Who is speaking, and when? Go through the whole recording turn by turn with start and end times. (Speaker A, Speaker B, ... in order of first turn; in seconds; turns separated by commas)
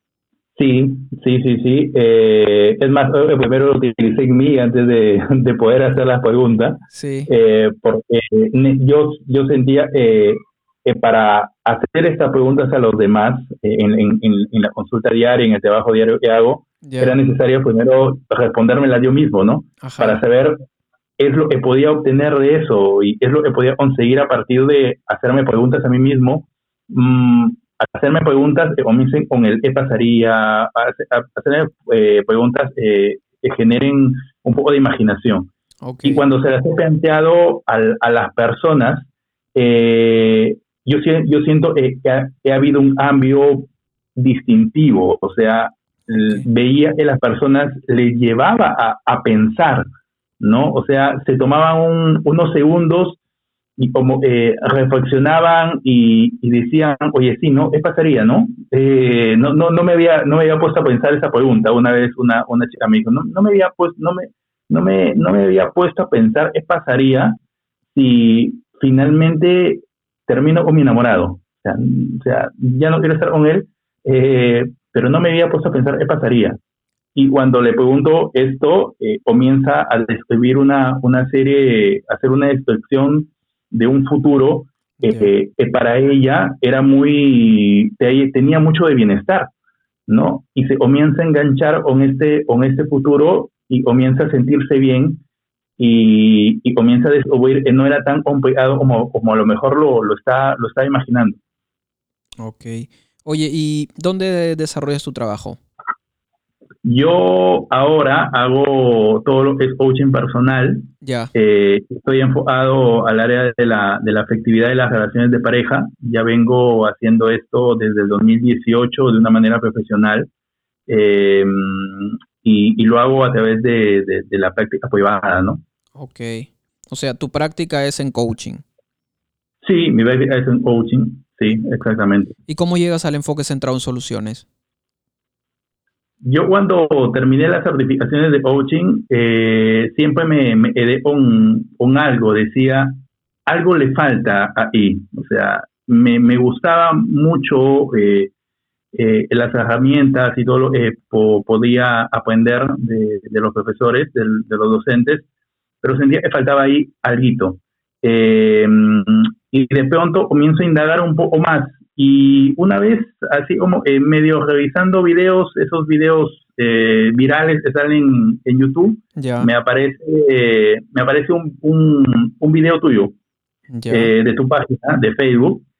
Speaker A: 0.6-20.6, Speaker B: 6.9-7.3, Speaker B: 16.8-17.2, Speaker B: 19.8-20.2, Speaker A: 21.2-35.5, Speaker B: 35.8-36.3, Speaker A: 36.0-49.9, Speaker B: 46.1-46.4, Speaker A: 50.4-53.2, Speaker A: 53.8-67.4, Speaker A: 67.9-76.6, Speaker A: 77.2-89.5, Speaker B: 85.0-85.3, Speaker A: 90.1-95.2, Speaker A: 95.8-101.4, Speaker B: 102.4-105.6, Speaker A: 106.8-120.3, Speaker B: 111.0-111.3, Speaker A: 120.9-125.6, Speaker B: 126.0-128.6, Speaker A: 129.6-132.3, Speaker B: 132.5-134.5, Speaker A: 136.2-148.3, Speaker A: 148.9-155.3, Speaker A: 155.8-173.1, Speaker B: 169.2-169.5, Speaker B: 173.7-174.1, Speaker A: 173.9-175.6